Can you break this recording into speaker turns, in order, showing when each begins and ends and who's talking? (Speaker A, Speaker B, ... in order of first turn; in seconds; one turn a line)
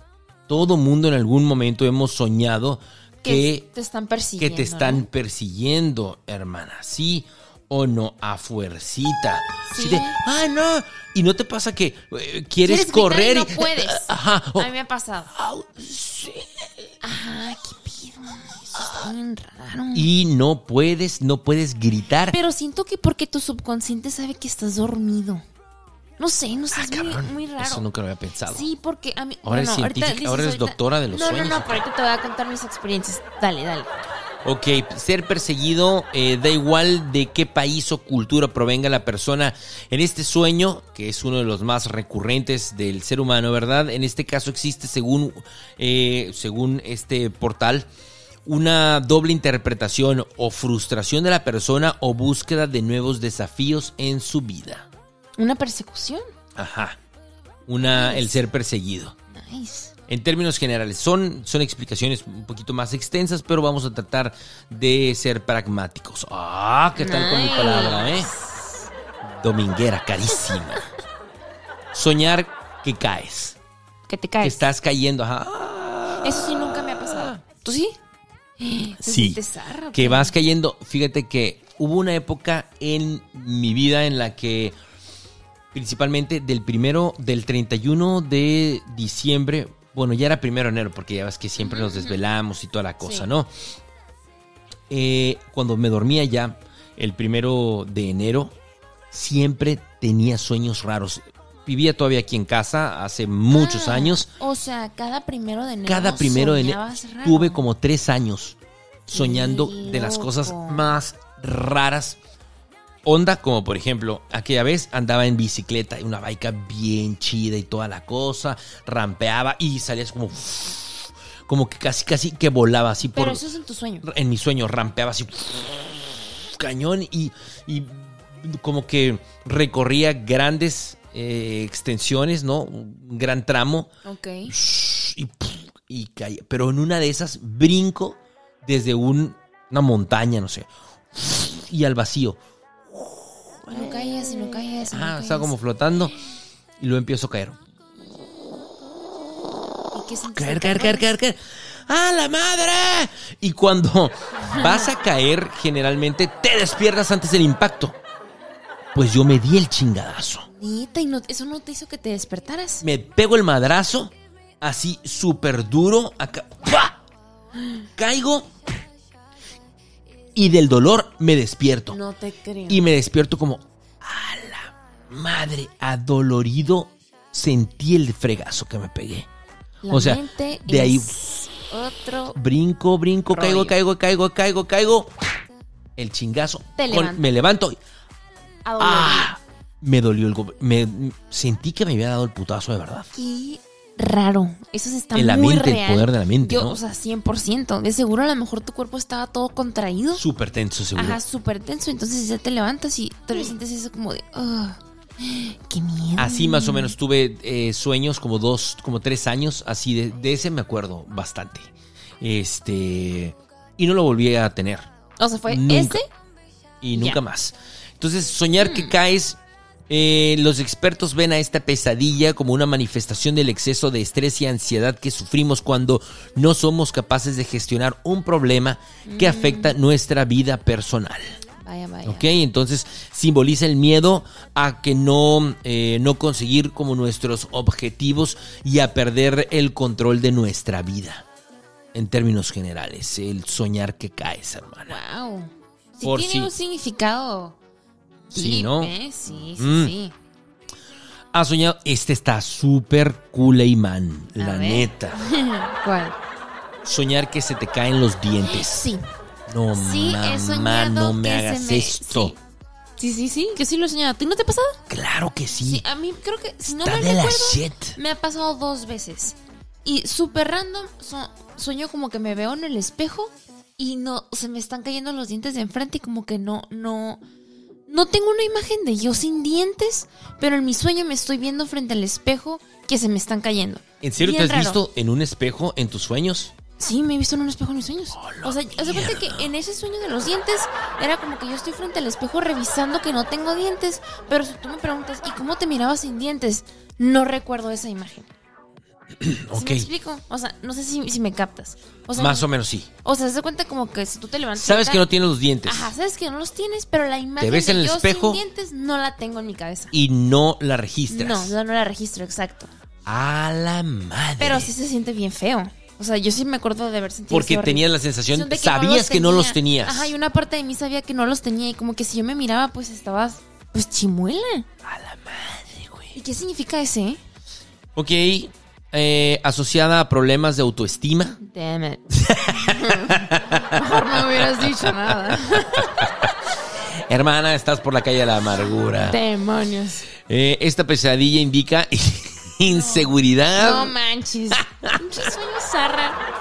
Speaker A: 0.5-3.6
Speaker B: 3.2-5.1
Speaker A: 4.4-14.7
Speaker B: 9.7-10.2
Speaker B: 12.6-15.3
Speaker A: 15.3-16.7
Speaker B: 17.0-20.1
Speaker A: 18.8-19.1
Speaker A: 19.9-22.4
Speaker B: 22.3-25.4
Speaker B: 26.2-27.8
Speaker A: 26.7-28.6
Speaker B: 28.5-33.9
Speaker A: 29.4-31.8
Speaker A: 34.4-47.9
Speaker A: 48.5-54.9
Speaker B: 55.4-56.2
Speaker A: 56.5-57.0
Speaker A: 57.7-59.1
Speaker B: 57.9-58.4
Speaker B: 59.3-59.9
Speaker A: 60.1-68.3
Speaker B: 67.0-68.8
Speaker A: 69.2-70.8
Speaker A: 71.9-73.6
Speaker B: 74.1-74.6
Speaker A: 74.4-77.4
Speaker B: 76.2-78.0
Speaker B: 78.6-80.3
Speaker A: 79.0-79.4
Speaker A: 79.9-84.7
Speaker A: 85.7-93.5
Speaker B: 91.6-92.2
Speaker B: 93.0-93.3
Speaker A: 94.9-98.5
Speaker A: 99.1-104.3
Speaker B: 103.5-107.6
Speaker A: 105.8-112.2
Speaker B: 109.1-110.8
Speaker A: 113.0-123.4
Speaker B: 123.1-124.0
Speaker A: 124.0-133.9
Speaker B: 134.0-134.5
Speaker A: 134.5-142.4
Speaker A: 142.9-146.1
Speaker B: 143.7-145.5
Speaker A: 146.8-147.6
Speaker B: 149.9-151.1
Speaker A: 150.3-158.0
Speaker B: 154.4-154.9
Speaker A: 158.9-160.5
Speaker B: 160.6-162.8
Speaker A: 162.8-167.0
Speaker A: 168.0-168.5
Speaker A: 170.3-172.0
Speaker B: 171.9-172.8
Speaker A: 172.7-179.3
Speaker B: 179.8-182.4
Speaker A: 179.9-181.2
Speaker A: 182.3-185.1
Speaker B: 183.3-183.8
Speaker A: 186.0-187.8
Speaker B: 186.8-187.2
Speaker B: 188.6-189.3
Speaker A: 188.8-193.1
Speaker B: 193.1-200.2
Speaker A: 195.1-196.8
Speaker A: 200.2-201.2
Speaker B: 200.9-206.9
Speaker A: 206.2-214.9
Speaker B: 215.2-216.1
Speaker A: 215.5-216.0
Speaker A: 216.8-231.3
Speaker B: 216.9-217.2
Speaker B: 218.6-218.9
Speaker B: 229.1-229.7
Speaker B: 231.6-232.4
Speaker A: 232.0-241.2
Speaker A: 241.9-245.0
Speaker B: 244.9-247.6
Speaker A: 246.0-246.5
Speaker A: 248.3-248.9
Speaker B: 248.3-250.1
Speaker A: 249.5-249.9
Speaker A: 251.3-255.2
Speaker B: 254.4-256.1
Speaker A: 256.8-258.9
Speaker B: 258.4-259.0
Speaker A: 259.5-262.3
Speaker B: 259.7-262.4
Speaker B: 263.0-264.8
Speaker A: 264.9-265.8
Speaker B: 265.6-277.2
Speaker A: 266.6-268.0
Speaker B: 277.9-284.8
Speaker A: 284.0-286.5
Speaker B: 286.8-298.3
Speaker A: 288.1-289.5
Speaker A: 299.2-299.9
Speaker B: 299.5-302.5
Speaker A: 302.1-302.9
Speaker B: 303.0-305.1
Speaker A: 304.6-305.9
Speaker B: 305.6-309.9
Speaker A: 307.4-308.4
Speaker A: 309.9-311.5
Speaker B: 311.1-312.7
Speaker A: 313.1-314.7
Speaker B: 314.4-324.7
Speaker A: 317.3-320.1
Speaker A: 324.8-326.1
Speaker B: 326.1-327.2
Speaker A: 327.9-331.4
Speaker B: 331.4-336.1
Speaker A: 332.1-339.2
Speaker B: 339.0-340.1
Speaker A: 340.2-343.9
Speaker B: 342.7-346.2
Speaker A: 344.6-345.0